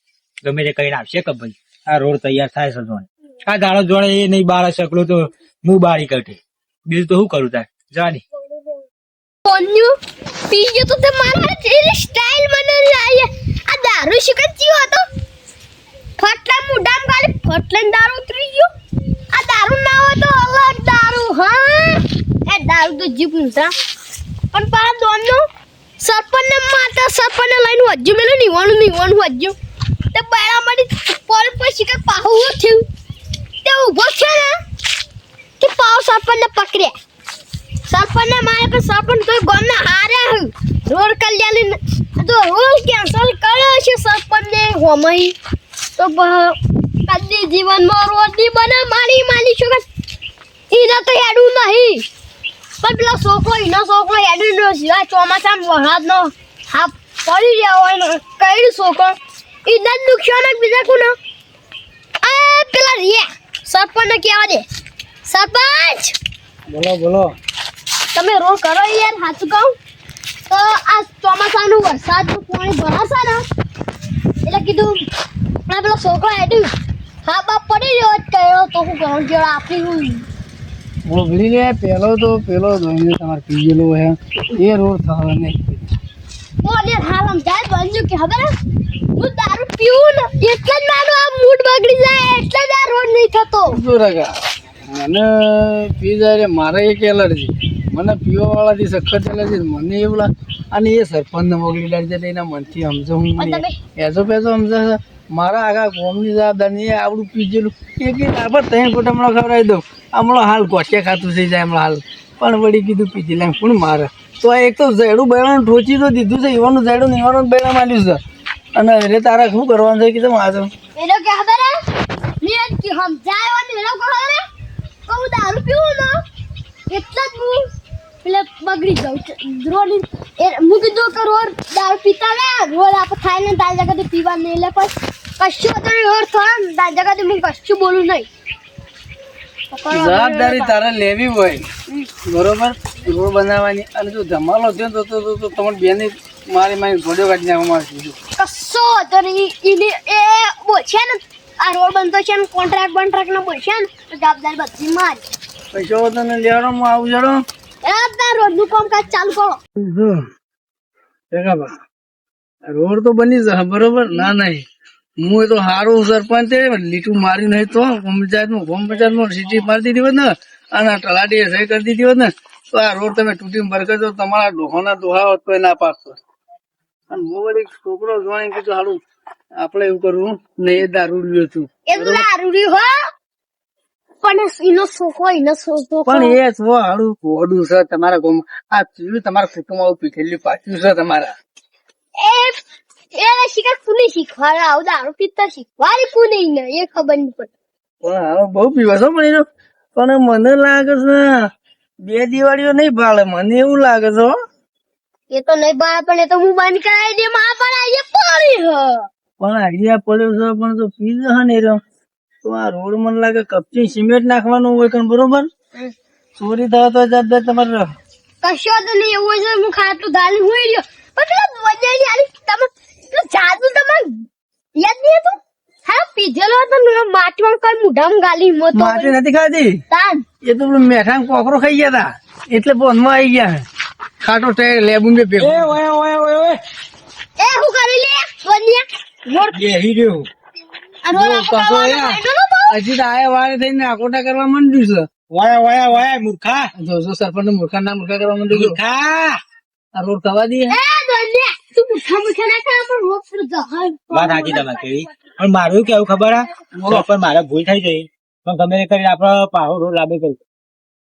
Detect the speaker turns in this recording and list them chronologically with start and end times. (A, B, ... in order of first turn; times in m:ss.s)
0:00.4-0:08.2 A
0:09.4-0:10.0 B
0:10.5-0:15.0 B
0:16.2-0:18.7 B
0:19.3-0:23.7 B
0:24.5-0:25.4 B
0:26.0-0:29.6 B
0:30.1-0:32.8 B
0:33.6-0:34.6 B
0:35.6-0:36.9 B
0:37.9-0:45.4 B
0:46.0-0:49.8 B
0:50.7-0:52.0 B
0:52.8-1:01.1 B
1:02.2-1:04.7 B
1:05.3-1:06.2 B
1:06.7-1:07.4 C
1:08.1-1:09.7 B
1:10.5-1:13.4 B
1:14.4-1:15.0 B
1:15.7-1:16.7 B
1:17.2-1:20.3 B
1:21.1-1:25.8 C
1:26.6-1:28.5 B
1:29.2-1:33.8 B
1:33.7-1:34.3 C
1:34.9-1:58.2 C
1:43.4-1:43.8 B
1:58.8-2:00.7 C
2:01.0-2:01.8 B
2:02.4-2:04.4 B
2:05.1-2:06.2 B
2:06.9-2:07.7 B
2:08.2-2:18.3 B
2:19.7-2:20.8 B
2:19.9-2:21.6 C
2:22.3-2:28.2 C
2:28.4-2:35.2 B
2:35.7-2:37.4 C
2:37.8-2:39.6 B
2:39.8-2:40.3 C
2:41.3-2:41.7 C
2:42.7-2:44.6 C
2:45.2-2:56.2 C
2:57.1-2:59.0 C
2:59.6-3:02.3 C
3:01.9-3:03.0 B
3:04.2-3:06.4 B
3:06.1-3:11.3 C
3:12.2-3:12.6 B
3:13.1-3:17.5 B
3:18.0-3:19.4 C
3:20.0-3:21.5 C
3:22.0-3:24.3 C
3:25.3-3:29.1 B
3:29.4-3:31.8 C
3:32.4-3:35.5 C
3:36.4-3:37.9 C
3:38.4-3:49.2 B
3:48.7-3:49.8 C
3:49.9-3:50.2 B
3:50.4-3:53.6 C
3:54.2-3:55.8 C
3:55.4-3:56.6 A
3:57.4-3:59.6 B
3:59.5-4:00.3 A
4:01.0-4:02.7 B
4:01.1-4:05.1 C
4:05.3-4:06.7 A
4:06.8-4:08.8 C
4:08.5-4:09.4 A
4:10.0-4:10.8 C
4:10.7-4:14.7 B
4:14.1-4:20.4 A
4:16.8-4:17.1 C